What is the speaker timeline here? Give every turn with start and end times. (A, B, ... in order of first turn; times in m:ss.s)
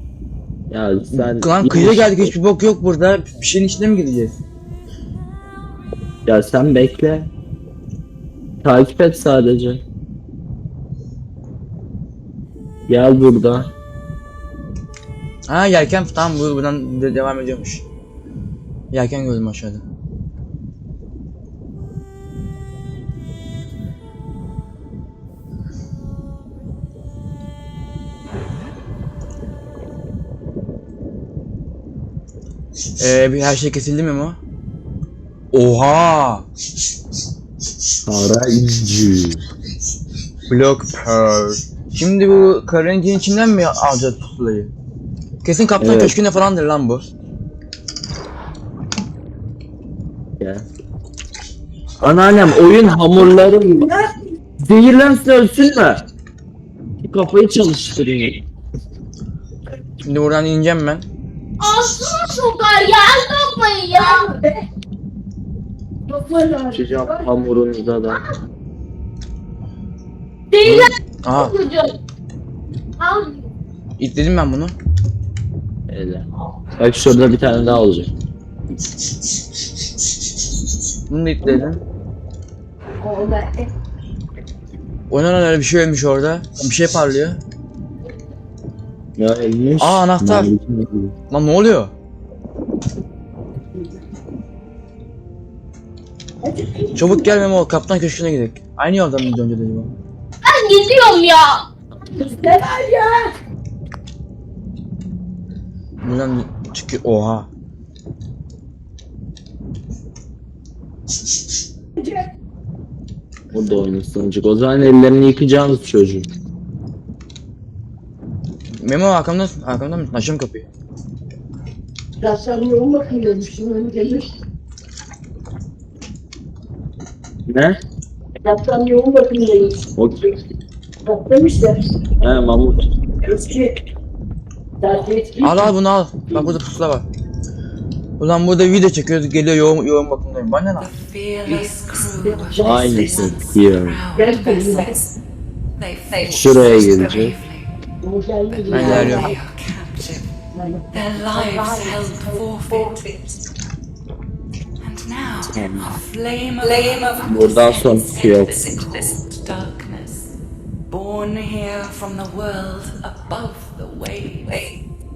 0:00.7-0:02.3 A
0:01.1-0:04.4 B
0:06.2-0:07.3 A
0:08.6-0:09.8 A
0:12.9-0:13.7 A
0:15.5-0:17.8 B
0:18.9-0:19.8 B
0:33.0-0:34.4 B
0:35.5-0:36.4 B
0:38.0-0:39.4 A
0:40.5-0:44.7 B
0:45.4-0:47.0 B
0:45.8-0:46.2 A
0:50.4-0:50.7 A
0:52.0-0:53.9 A
0:54.6-0:56.0 A
0:57.0-0:58.4 A
1:00.0-1:01.1 B
1:01.6-1:04.3 C
1:03.9-1:04.6 D
1:06.1-1:07.3 D
1:06.7-1:08.2 A
1:10.5-1:12.0 C
1:11.2-1:11.6 B
1:13.0-1:13.3 C
1:14.0-1:14.7 B
1:15.9-1:16.2 A
1:16.8-1:18.1 A
1:21.1-1:21.8 B
1:23.0-1:23.6 D
1:25.1-1:27.4 B
1:29.2-1:31.1 A
1:29.8-1:30.5 B
1:31.3-1:31.9 B
1:36.4-1:37.3 D
1:37.0-1:39.9 B
1:40.4-1:41.6 C
1:42.1-1:43.3 D
1:46.0-1:47.5 B
1:53.5-1:56.3 A
1:58.7-2:00.7 B
2:02.2-2:04.3 D
2:07.5-2:07.8 A
2:08.4-2:09.8 D
2:10.0-2:10.3 A
2:11.0-2:11.8 D
2:12.2-2:12.9 A
2:13.2-2:13.7 D
2:14.8-2:15.7 D
2:15.4-2:17.1 B
2:18.2-2:20.9 B
2:20.8-2:25.1 E
2:22.4-2:23.0 D
2:22.6-2:24.0 A
2:24.1-2:24.9 D
2:25.8-2:27.7 E
2:26.3-2:27.4 A
2:28.0-2:29.3 D
2:28.6-2:30.3 E
2:28.7-2:29.3 B
2:30.5-2:31.7 D
2:30.9-2:33.2 E
2:34.8-2:40.3 E
2:35.5-2:35.9 A
2:37.2-2:38.7 A
2:40.9-2:44.6 E